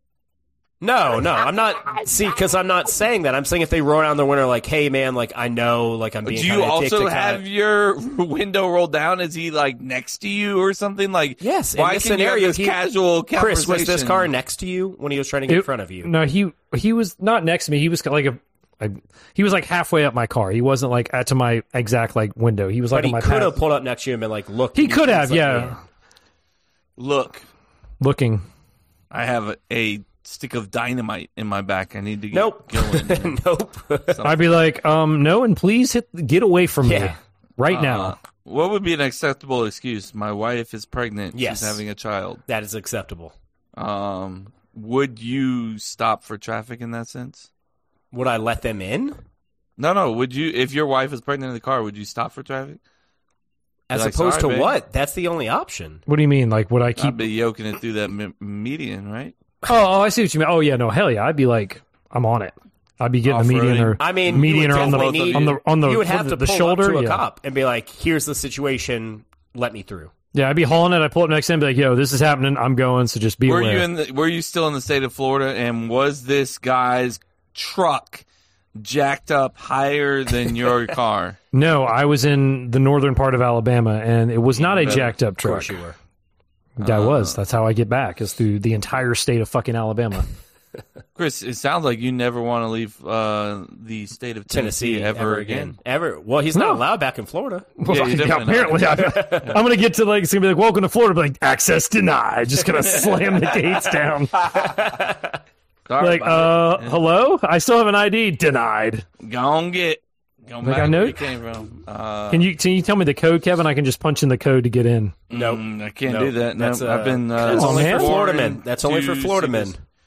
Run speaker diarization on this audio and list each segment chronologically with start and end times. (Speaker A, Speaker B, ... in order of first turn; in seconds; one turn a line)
Speaker A: 0.8-7.4
Speaker B: 6.2-14.3
Speaker A: 11.4-12.8
Speaker A: 13.3-16.1
Speaker C: 15.5-23.6
Speaker A: 22.9-25.8
Speaker C: 24.7-25.8
Speaker B: 27.0-27.4
Speaker C: 28.0-28.4
Speaker B: 29.1-33.4
Speaker A: 32.3-34.2
Speaker B: 34.1-34.5
Speaker C: 34.2-38.1
Speaker A: 36.8-37.1
Speaker B: 37.7-42.4
Speaker A: 41.3-41.8
Speaker A: 42.5-43.3
Speaker B: 43.8-47.5
Speaker A: 48.1-49.2
Speaker B: 49.8-52.8
Speaker A: 53.9-56.0
Speaker B: 53.9-54.8
Speaker C: 56.1-57.2
Speaker B: 57.0-59.3
Speaker C: 59.6-67.2
Speaker B: 63.2-65.5
Speaker A: 64.0-70.1
Speaker C: 70.3-73.9
Speaker B: 73.4-78.2
Speaker B: 78.8-81.4
Speaker C: 81.5-85.8
Speaker B: 84.5-85.1
Speaker A: 84.6-86.0
Speaker C: 86.8-90.3
Speaker B: 86.8-87.4
Speaker B: 91.2-95.8
Speaker A: 94.5-97.7
Speaker C: 96.5-96.8
Speaker C: 97.8-104.4
Speaker B: 97.9-99.6
Speaker B: 102.8-103.8
Speaker A: 104.6-105.2
Speaker B: 105.9-107.0
Speaker C: 106.0-109.0
Speaker B: 109.2-112.5
Speaker C: 110.6-111.2
Speaker C: 112.3-115.1
Speaker B: 115.3-119.7
Speaker A: 115.3-119.8
Speaker C: 117.4-118.2